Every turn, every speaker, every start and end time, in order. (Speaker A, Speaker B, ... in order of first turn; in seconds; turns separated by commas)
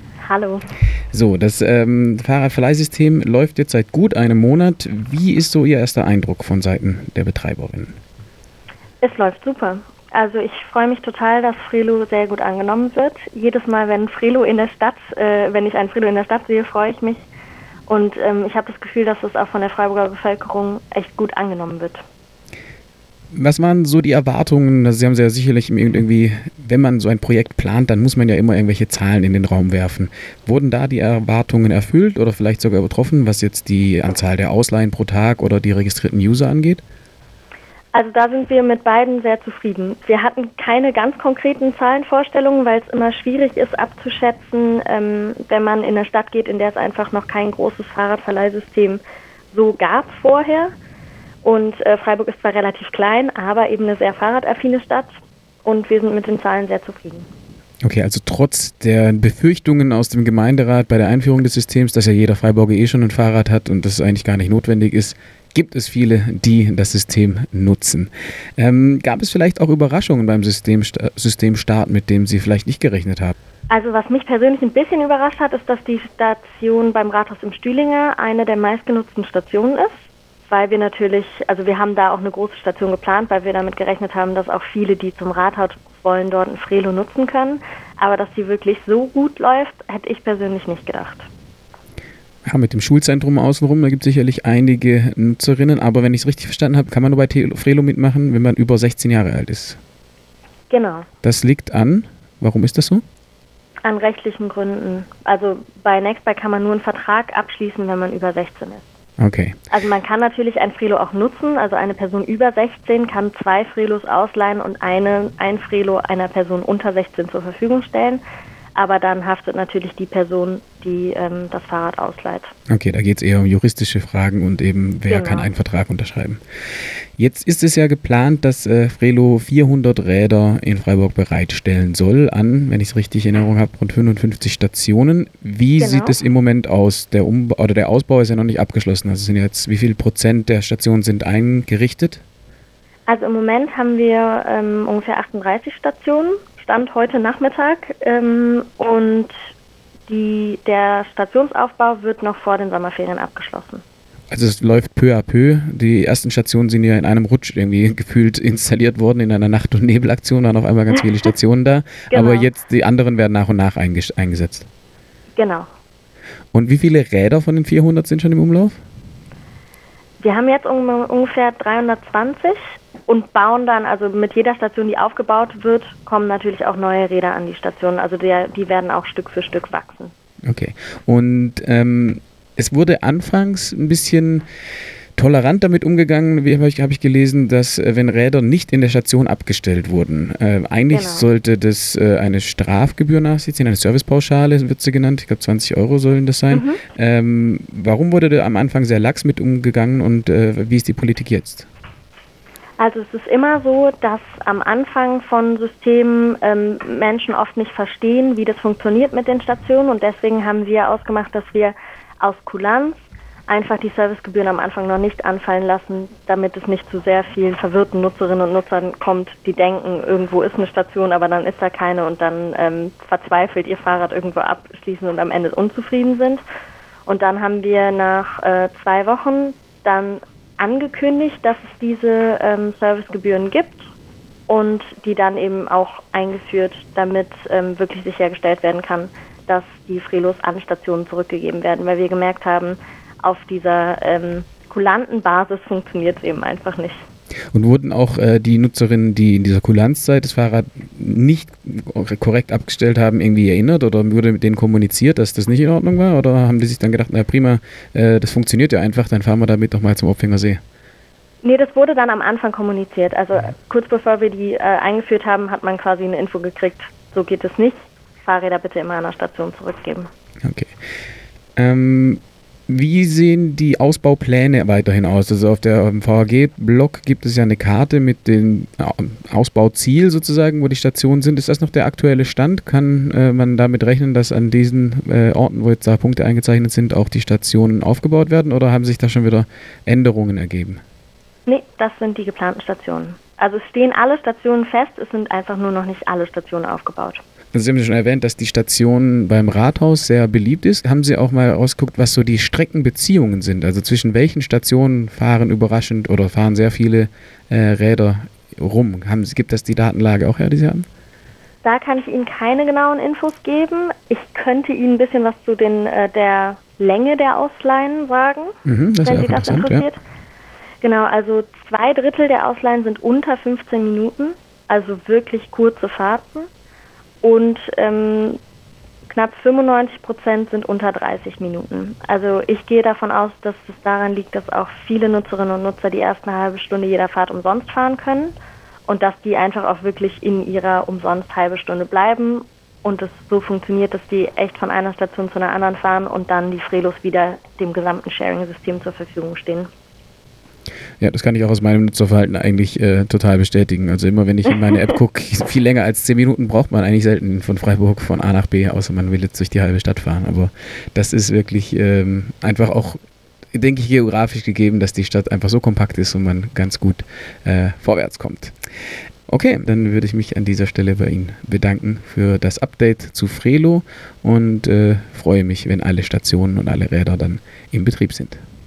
Speaker A: 0.2-0.6, Speaker B: 1.1-8.0, Speaker A: 9.0-17.2, Speaker A: 17.9-22.0, Speaker B: 23.3-36.8, Speaker A: 37.9-49.0, Speaker A: 49.5-50.7, Speaker A: 51.4-57.3, Speaker B: 57.8-73.3, Speaker A: 73.7-91.3, Speaker B: 92.4-99.8, Speaker A: 100.7-101.1, Speaker B: 101.2-103.0, Speaker A: 103.8-108.8, Speaker B: 109.2-109.5, Speaker A: 109.7-118.2, Speaker A: 118.7-122.5, Speaker B: 122.7-126.4, Speaker A: 125.1-125.5, Speaker B: 127.2-142.2, Speaker A: 135.8-136.2, Speaker A: 143.1-149.3, Speaker A: 150.1-153.8, Speaker B: 154.3-164.7, Speaker A: 162.1-162.5, Speaker A: 165.3-165.7, Speaker B: 166.5-168.8, Speaker A: 170.2-180.1, Speaker B: 180.4-184.4, Speaker B: 185.2-201.7, Speaker A: 190.9-191.3, Speaker A: 196.5-196.8, Speaker A: 202.8-213.0, Speaker A: 213.5-226.4, Speaker A: 227.1-233.9, Speaker A: 234.5-247.0, Speaker B: 247.5-260.6, Speaker A: 261.4-270.1, Speaker B: 270.4-270.7, Speaker B: 271.6-290.8, Speaker A: 291.4-297.2, Speaker B: 297.5-310.9, Speaker A: 311.6-320.0, Speaker B: 318.6-319.9, Speaker A: 320.8-326.5, Speaker A: 327.2-328.4, Speaker A: 329.1-338.4, Speaker A: 338.9-349.7, Speaker B: 351.0-363.0, Speaker B: 363.5-368.5, Speaker B: 369.3-378.4